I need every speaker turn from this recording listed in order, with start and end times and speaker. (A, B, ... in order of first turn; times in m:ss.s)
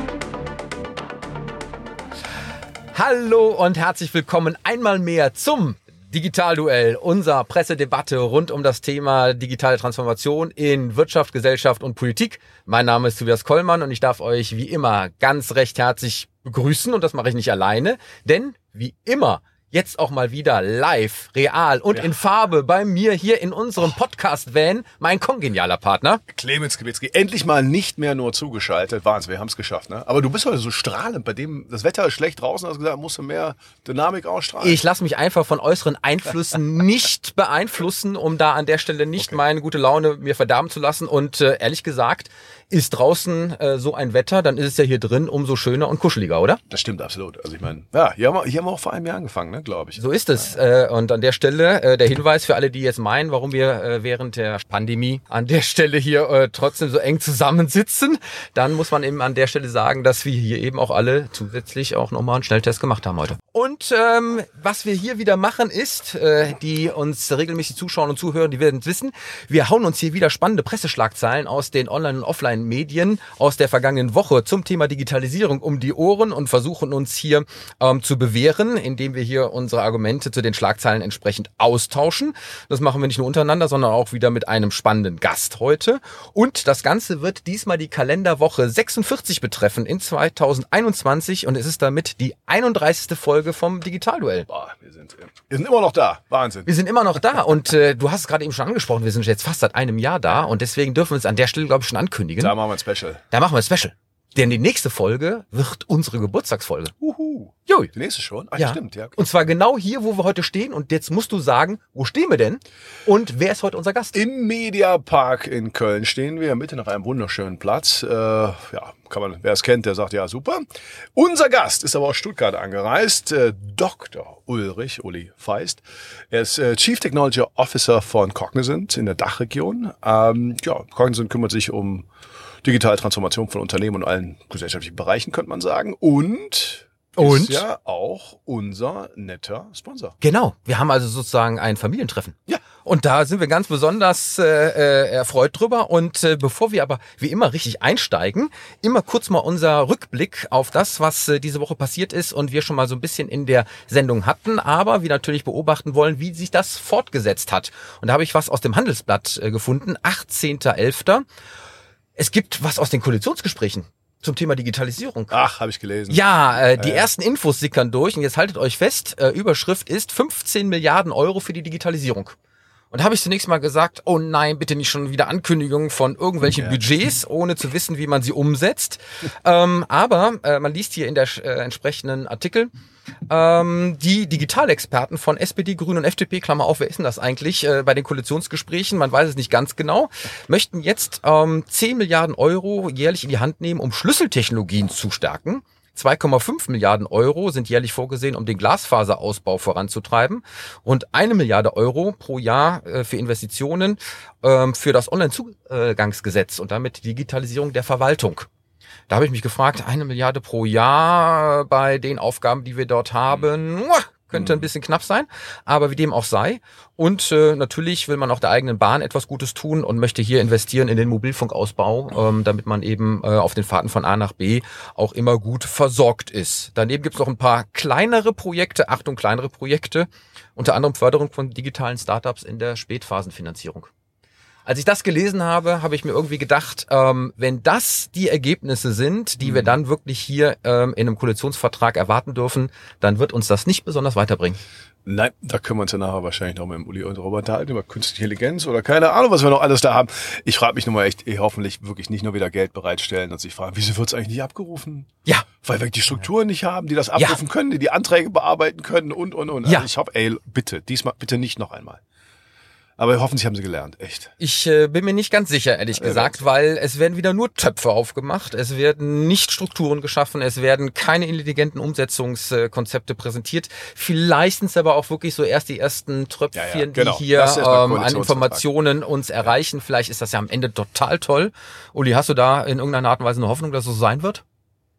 0:02.9-0:26.2 A
0:26.3-0:34.8 B
0:34.6-0:46.6 A
0:46.7-0:50.0 B
0:50.0-1:34.5 A
1:34.5-1:36.7 B
1:36.6-1:42.6 A
1:42.4-1:43.2 B
1:43.3-1:46.9 A
1:47.0-1:49.3 B
1:48.6-1:54.2 A
1:54.1-2:12.1 B
2:12.6-2:20.1 B
2:17.2-2:17.6 A
2:20.2-2:41.2 A
2:42.2-2:45.4 A
2:45.3-2:47.1 B
2:46.1-2:52.3 A
2:52.9-3:02.7 A
3:03.3-3:28.5 A
3:29.1-3:53.9 A
3:34.3-3:34.6 B
3:54.6-4:04.6 A
3:59.4-3:59.7 B
4:05.0-4:15.1 B
4:15.6-4:22.0 B
4:23.0-4:24.3 B
4:24.4-4:44.4 A
4:26.0-4:26.3 B
4:36.5-4:38.6 B